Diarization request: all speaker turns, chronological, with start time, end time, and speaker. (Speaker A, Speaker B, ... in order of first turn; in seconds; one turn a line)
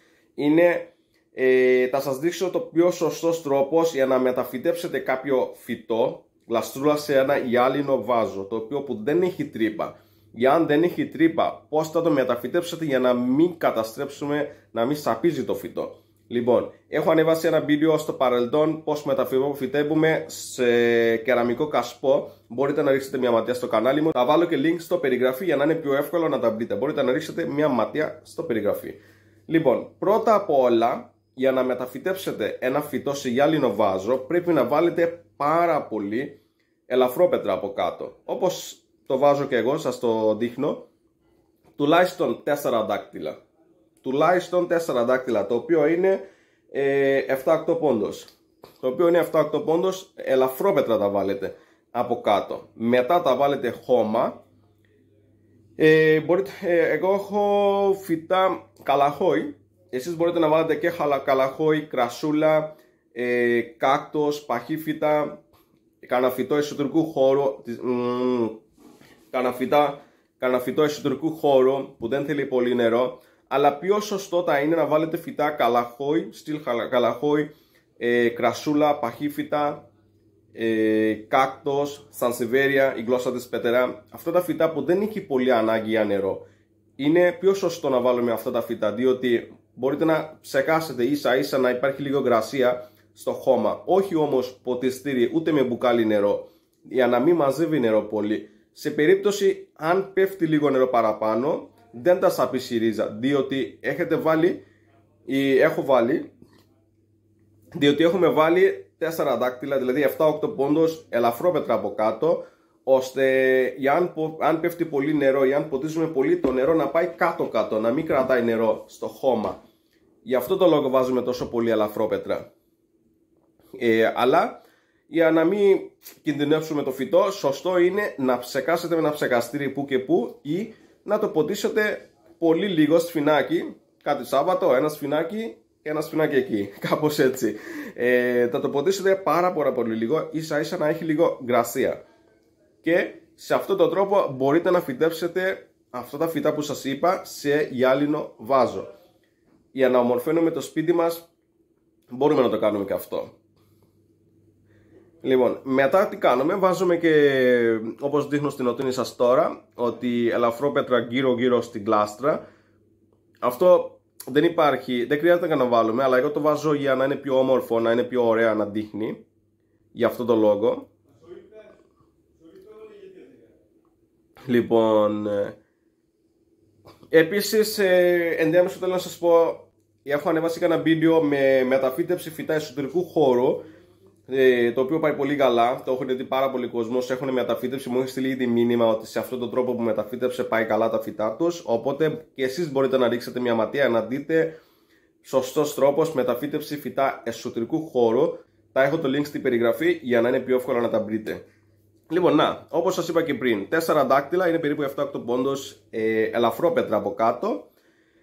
Speaker A: 0.4-29.0
Speaker A: 29.5-36.4
Speaker A: 36.9-40.8
Speaker A: 41.8-43.4
Speaker A: 44.0-46.2
Speaker A: 46.7-48.3
Speaker A: 48.8-54.4
Speaker A: 55.8-65.4
Speaker A: 66.0-68.6
Speaker A: 69.3-77.5
Speaker A: 78.0-79.8
Speaker A: 80.6-86.4
Speaker A: 87.0-104.6
Speaker A: 105.3-106.2
Speaker A: 107.8-119.6
Speaker A: 120.3-122.4
Speaker A: 123.8-124.5
Speaker A: 125.1-142.0
Speaker A: 142.8-148.9
Speaker A: 149.7-151.2
Speaker A: 152.1-153.3
Speaker A: 155.2-162.4
Speaker A: 163.4-169.2
Speaker A: 169.9-170.9
Speaker A: 174.5-175.6
Speaker A: 177.1-183.6
Speaker A: 184.3-194.6
Speaker A: 195.2-201.4
Speaker A: 202.1-207.7